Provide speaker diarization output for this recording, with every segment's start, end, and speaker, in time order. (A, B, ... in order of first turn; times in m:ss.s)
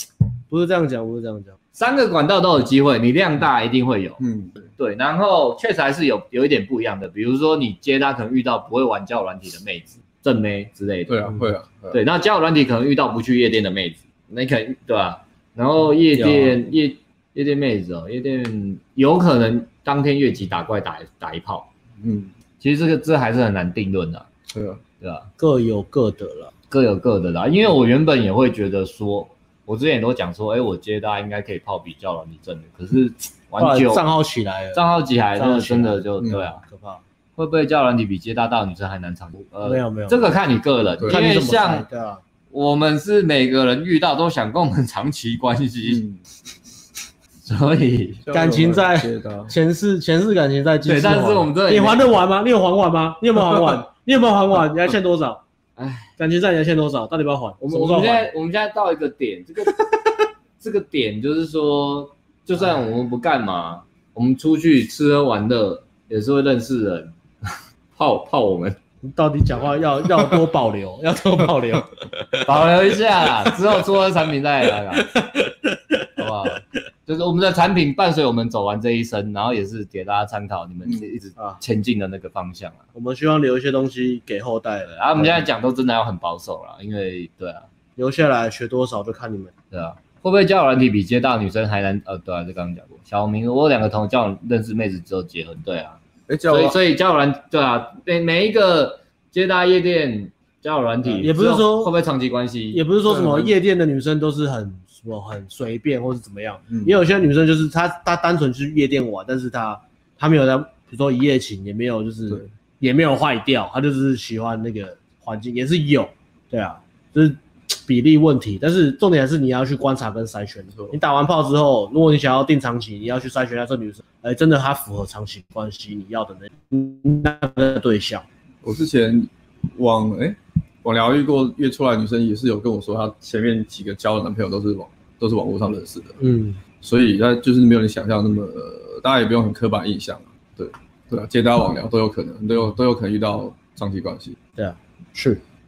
0:00.5-0:01.6 A
0:01.7-0:04.2 B
0:04.2-0:04.6 C
0:04.8-0:11.1 B
0:11.1-0:12.0 C
0:11.9-0:21.7 B
0:16.1-0:16.6 A
0:22.0-0:22.3 C
0:22.6-0:24.3 B
0:24.5-0:24.8 C
0:25.0-0:25.3 B
0:25.4-0:26.5 A
0:26.7-0:34.0 B
0:33.6-0:34.8 A
0:34.7-0:36.6 B
0:35.4-0:37.0 A
0:37.4-0:41.8 B
0:39.6-0:40.3 A
0:41.1-0:42.2 A
0:42.5-0:46.0 B
0:45.9-0:46.2 C
0:47.4-0:48.2 B
0:48.2-0:49.5 C
0:48.3-0:55.4 A
0:50.8-0:52.1 B
0:55.8-0:56.1 B
0:56.2-0:58.3 A
0:57.6-0:59.9 B
1:00.6-1:08.8 B
1:09.0-1:12.0 A
1:12.4-1:15.2 B
1:16.2-1:22.8 B
1:22.9-1:25.4 A
1:24.9-1:27.6 B
1:28.0-1:29.5 A
1:29.7-1:42.8 B
1:36.3-1:36.8 C
1:41.2-1:41.9 A
1:42.7-2:08.2 A
1:43.0-1:43.5 C
1:46.7-1:47.0 C
2:08.6-2:16.2 C
2:16.2-2:16.6 A
2:16.8-2:24.4 C
2:24.6-2:25.4 A